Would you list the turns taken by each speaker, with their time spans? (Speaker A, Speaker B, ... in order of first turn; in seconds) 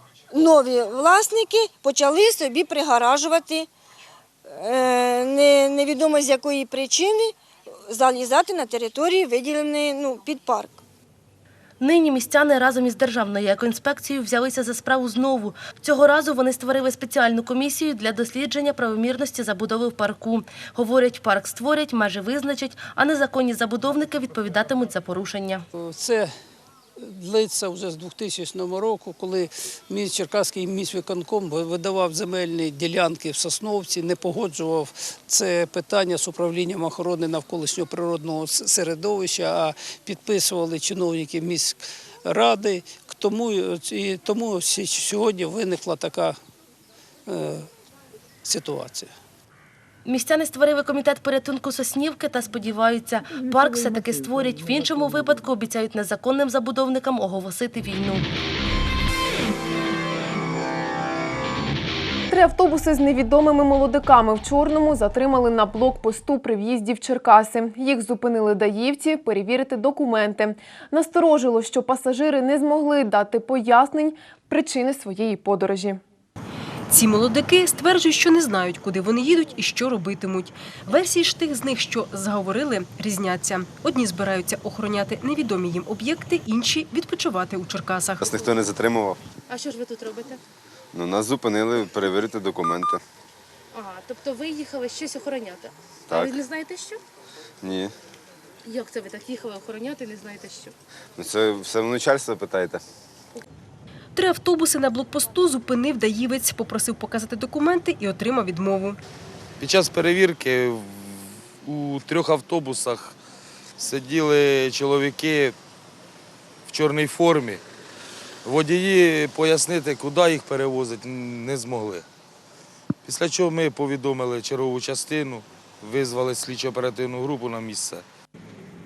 Speaker A: 0.3-3.7, 4.6-7.3, 7.9-10.8
Speaker B: 11.8-25.6, 50.0-58.2, 89.5-90.4, 93.7-97.0, 98.6-100.7
Speaker C: 25.8-26.3, 27.0-46.4, 47.3-47.7, 48.4-49.1
Speaker D: 62.3-76.0
Speaker E: 76.9-88.3, 104.2-109.0
Speaker F: 88.2-89.2, 90.9-93.0, 96.1-96.3, 97.6-97.9, 101.2-102.8
Speaker G: 109.6-113.1, 113.8-115.5, 116.7-117.6, 118.4-122.0, 123.0-128.0